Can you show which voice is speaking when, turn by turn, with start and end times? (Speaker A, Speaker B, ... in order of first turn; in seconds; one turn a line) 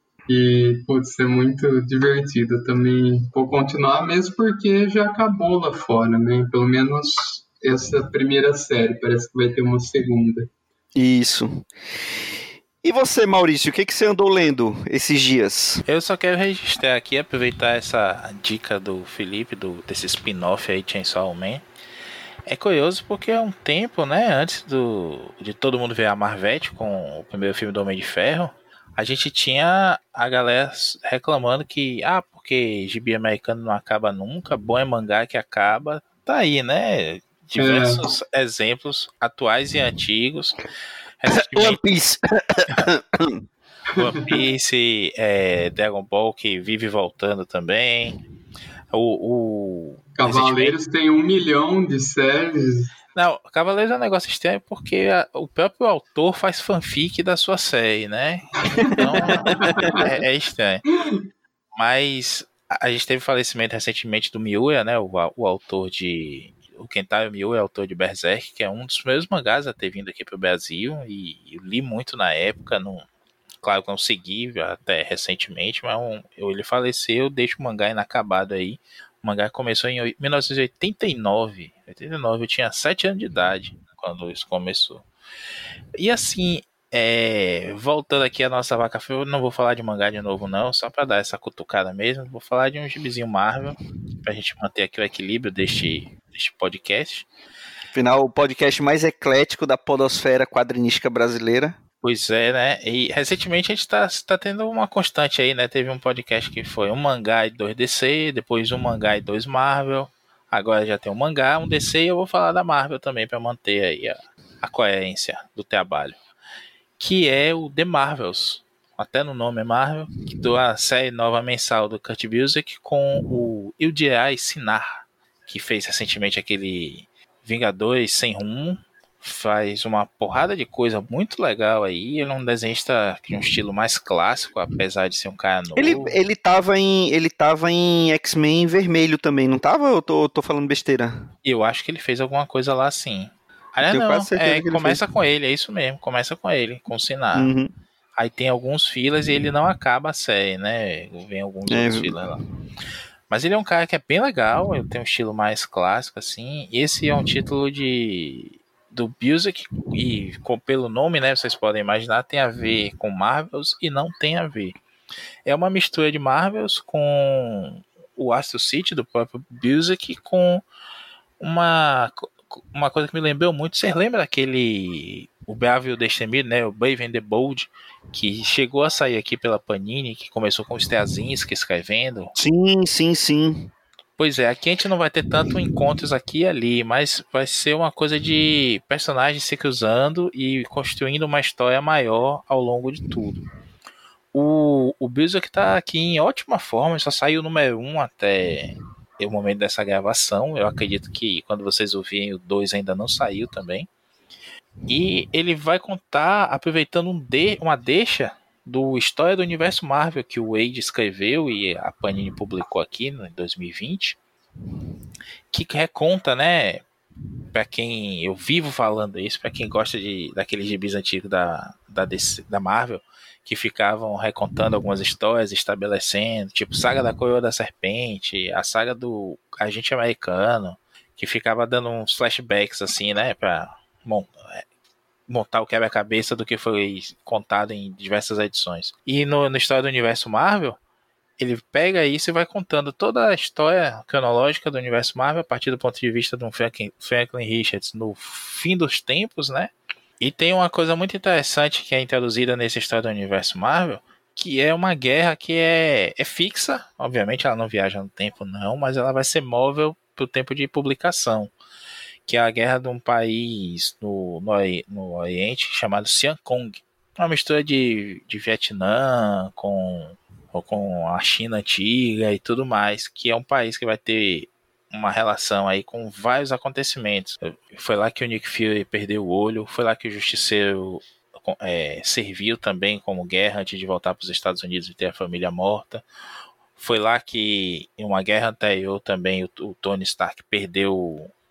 Speaker A: 0.3-10.5
Speaker B: 10.9-11.7
Speaker B: 12.8-15.8
Speaker C: 15.9-21.6
Speaker C: 22.4-40.6
Speaker A: 37.6-38.0
Speaker C: 41.2-41.8
Speaker B: 41.3-43.4
Speaker C: 43.9-48.2
Speaker C: 48.9-50.8
Speaker A: 50.1-52.9
Speaker C: 53.1-60.9
Speaker A: 58.9-60.0
Speaker B: 59.7-59.9
Speaker C: 61.8-73.0
Speaker C: 73.6-85.1
Speaker C: 86.0-97.3
Speaker B: 97.9-101.8
Speaker C: 102.0-116.2
Speaker C: 117.0-136.2
Speaker B: 135.8-141.3
Speaker C: 141.4-147.5
Speaker B: 143.9-145.0
Speaker B: 147.3-147.7
Speaker C: 148.2-152.4
Speaker B: 151.7-152.2
Speaker C: 153.3-164.8
Speaker C: 165.4-170.6
Speaker C: 171.4-182.3
Speaker B: 182.3-183.7
Speaker C: 184.2-193.4
Speaker C: 194.3-203.9
Speaker C: 204.9-214.2
Speaker C: 215.5-216.8
Speaker C: 217.5-234.6
Speaker C: 235.3-240.8
Speaker C: 241.4-261.5
Speaker C: 262.2-286.0
Speaker C: 286.8-291.3